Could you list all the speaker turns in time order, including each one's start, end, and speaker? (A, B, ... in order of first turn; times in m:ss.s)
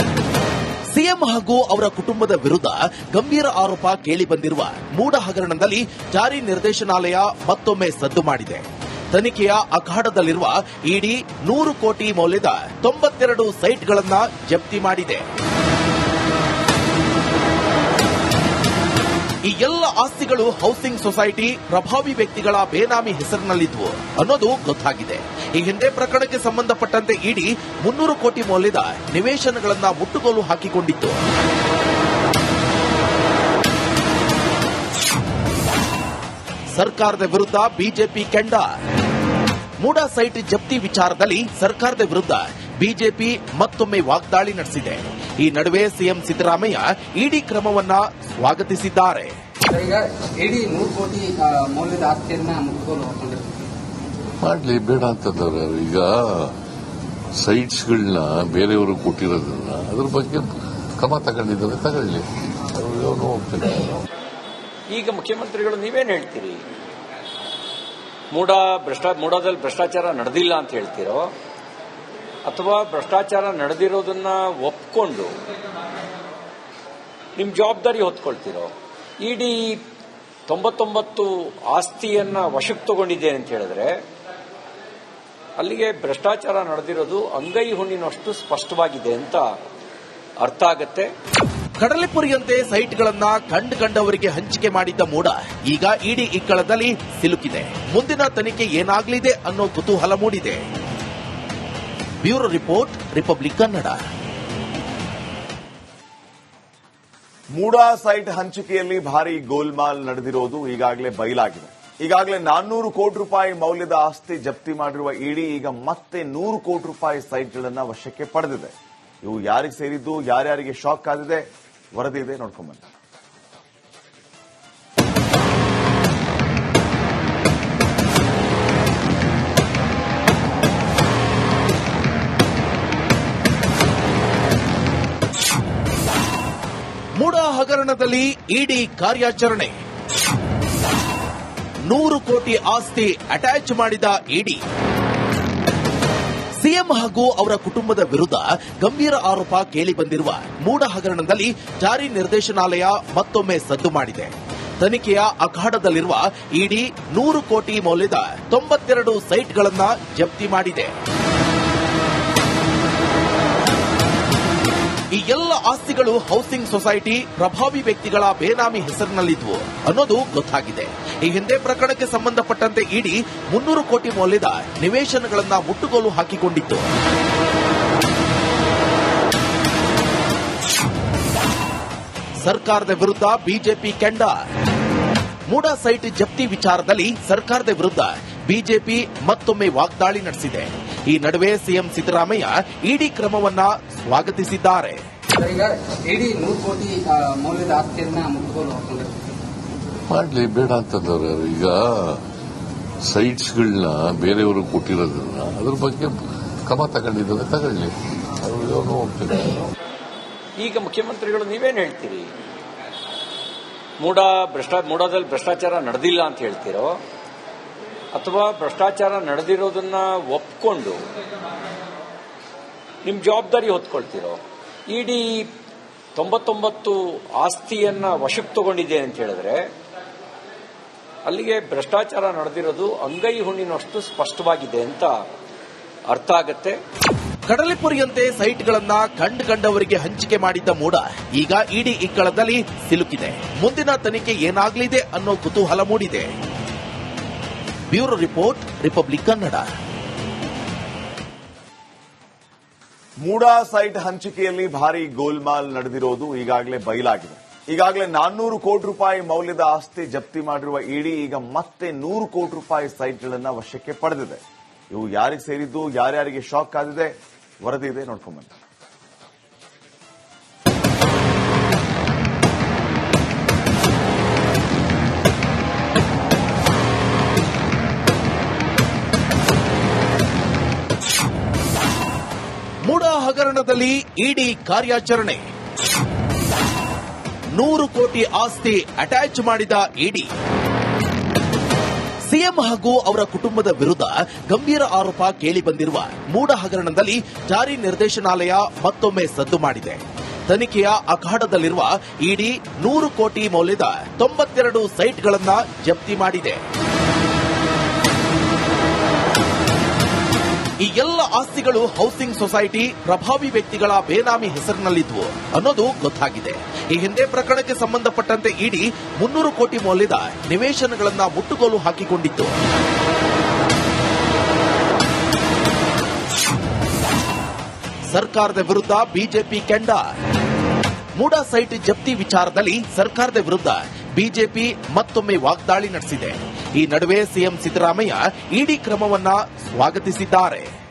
0:00.9-0:15.2 A
0:19.5-0:31.2 A
0:36.7-0:38.8 A
0:39.8-0:49.4 A
0:49.7-0:53.7 B
0:54.4-0:56.6 C
0:57.4-1:04.0 C
1:04.9-1:06.6 D
1:08.3-1:11.3 D
1:12.4-1:15.4 D
1:17.4-1:19.8 D
1:20.5-1:24.0 D
1:25.6-1:29.4 D
1:30.4-1:31.1 D
1:31.8-1:40.6 A
1:42.2-1:44.0 A
1:47.5-2:02.8 E
2:17.2-2:19.7 A
2:21.9-2:24.6 A
2:26.6-2:40.9 A
2:45.1-2:56.9 A
3:02.4-3:04.5 A
3:05.5-3:15.0 A
3:15.3-3:19.3 B
3:20.1-3:22.2 C
3:23.0-3:29.7 C
3:30.6-3:32.3 D
3:34.0-3:37.0 D
3:38.1-3:41.0 D
3:43.0-3:45.5 D
3:46.1-3:49.7 D
3:51.2-3:55.1 D
3:56.1-3:56.8 D
3:57.5-4:06.3 A
4:07.9-4:09.7 A
4:13.2-4:27.1 E
4:27.6-4:28.5 E
4:42.8-4:45.4 A
4:47.5-4:50.3 A
4:52.3-5:06.6 A
5:10.8-5:22.5 A
5:28.1-5:30.2 A
5:31.2-5:40.7 A